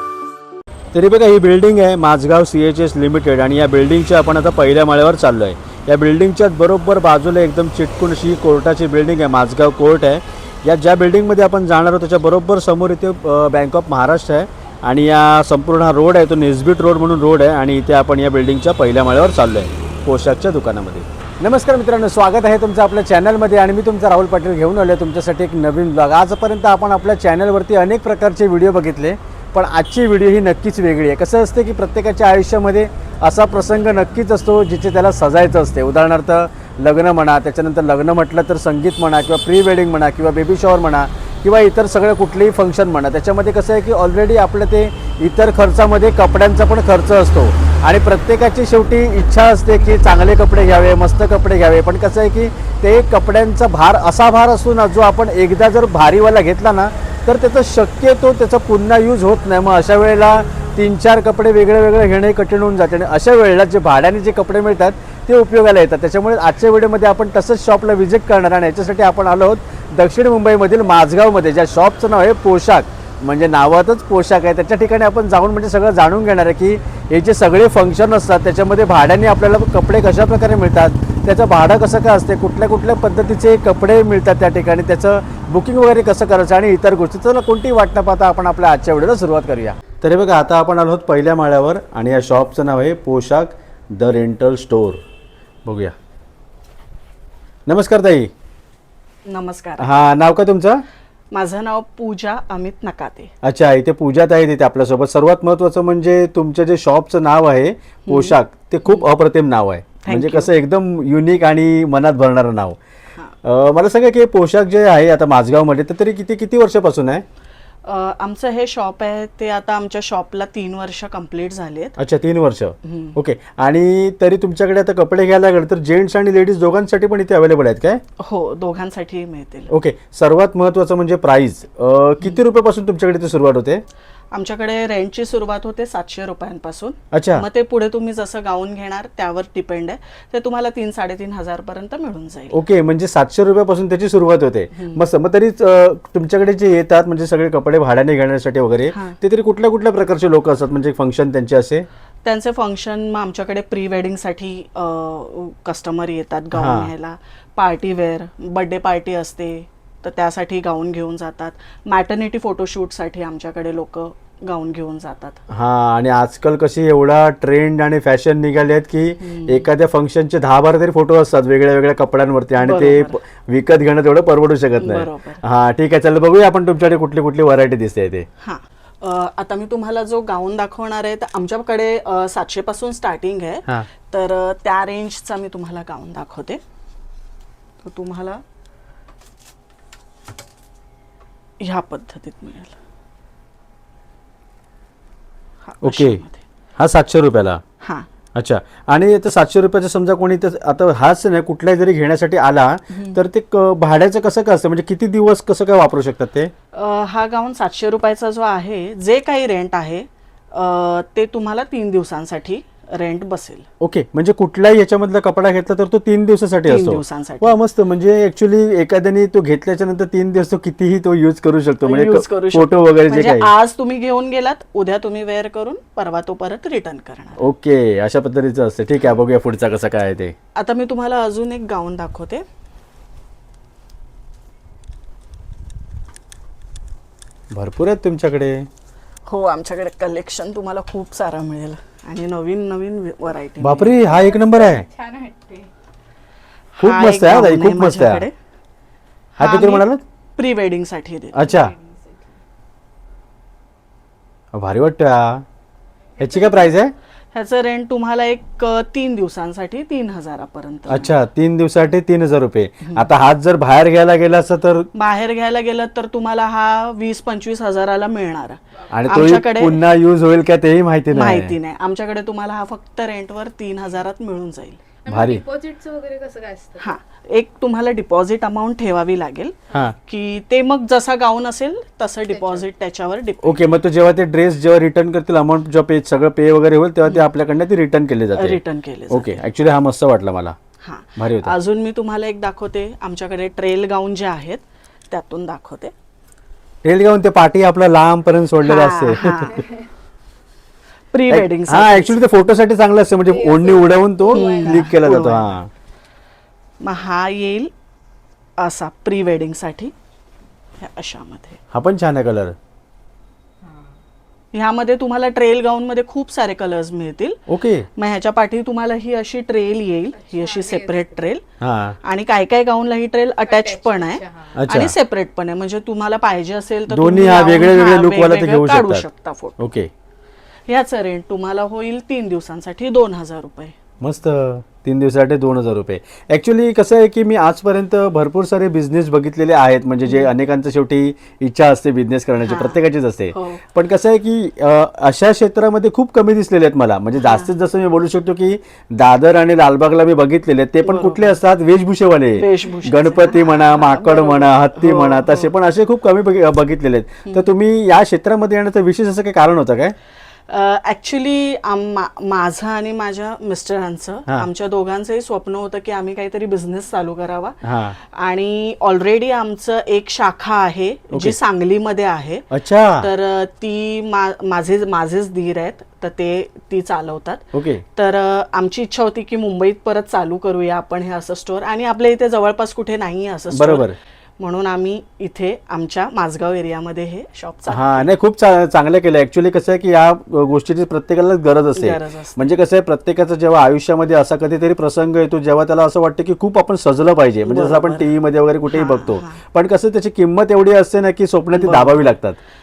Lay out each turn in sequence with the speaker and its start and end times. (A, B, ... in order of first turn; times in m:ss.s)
0:00.9-1:35.0 A
1:35.6-1:35.9 A
1:37.6-1:38.3 A
1:39.2-1:40.0 B
1:39.8-1:40.8 A
1:41.3-1:43.3 B
1:43.4-1:52.8 A
1:48.0-1:49.1 B
1:50.0-1:50.5 B
1:53.4-1:57.2 A
1:57.8-2:02.0 B
2:02.0-2:08.0 A
2:02.8-2:03.2 B
2:08.2-2:09.7 B
2:09.7-2:13.8 A
2:14.3-2:22.6 B
2:17.1-2:17.4 A
2:22.5-2:31.8 A
2:24.7-2:25.0 B
2:28.9-2:29.2 B
2:32.2-2:45.4 B
2:36.5-2:36.9 A
2:45.5-2:58.3 A
2:49.2-2:49.6 B
2:52.6-2:53.2 B
2:54.8-2:55.4 B
2:58.4-3:06.6 B
3:07.8-3:08.4 B
3:11.6-3:12.7 B
3:15.6-3:16.4 B
3:15.8-3:16.2 A
3:16.8-3:17.6 A
3:17.8-3:18.1 B
3:18.3-3:26.5 A
3:22.9-3:23.2 B
3:26.7-3:33.7 B
3:33.8-3:43.5 A
3:36.7-3:37.6 B
3:41.8-3:47.4 B
3:47.4-3:50.3 A
3:50.5-3:52.4 B
3:57.5-3:58.7 A
3:59.3-4:04.0 B
4:03.6-4:04.8 A
4:04.0-4:05.7 C
4:06.8-4:08.3 B
4:06.8-4:08.3 A
4:09.4-4:11.6 B
4:09.4-4:10.0 A
4:11.3-4:11.7 A
4:11.4-4:12.3 C
4:14.5-4:15.4 A
4:16.2-4:16.9 A
4:17.3-4:21.1 B
4:20.9-4:24.9 A
4:22.8-4:23.1 B
4:24.9-4:29.8 B
4:28.9-4:31.6 A
4:31.1-4:34.8 B
4:35.0-4:37.0 C
4:35.1-4:35.4 A
4:36.8-4:43.8 B
4:39.7-4:39.9 A
4:42.3-4:42.7 C
4:43.4-4:50.6 A
4:48.3-4:49.4 B
4:50.8-4:55.9 B
4:51.2-4:51.5 A
4:56.8-4:59.6 A
4:58.6-4:59.7 B
5:01.1-5:02.3 B
5:01.3-5:05.7 A
5:03.3-5:04.9 C
5:04.3-5:05.4 B
5:06.8-5:07.7 B
5:08.6-5:09.9 B
5:10.8-5:11.6 B
5:11.7-5:12.6 A
5:13.6-5:13.9 C
5:14.5-5:17.4 B
5:17.5-5:17.9 A
5:17.9-5:21.4 B
5:20.2-5:21.1 C
5:21.6-5:22.0 A
5:22.0-5:29.6 B
5:23.5-5:24.6 C
5:24.5-5:24.9 A
5:26.9-5:29.0 A
5:29.6-5:29.9 A
5:30.7-5:33.8 B
5:34.0-5:59.9 A
5:42.4-5:42.8 B
5:43.3-5:43.6 B
5:47.2-5:47.5 B
5:50.8-5:51.4 B
5:52.4-5:55.5 B
6:00.5-6:28.1 B
6:07.6-6:08.0 A
6:11.1-6:11.4 A
6:12.5-6:13.1 A
6:17.5-6:17.8 A
6:23.5-6:23.9 A
6:27.7-6:42.4 A
6:31.7-6:32.5 B
6:37.4-6:38.1 B
6:38.7-6:39.4 B
6:41.5-6:42.0 B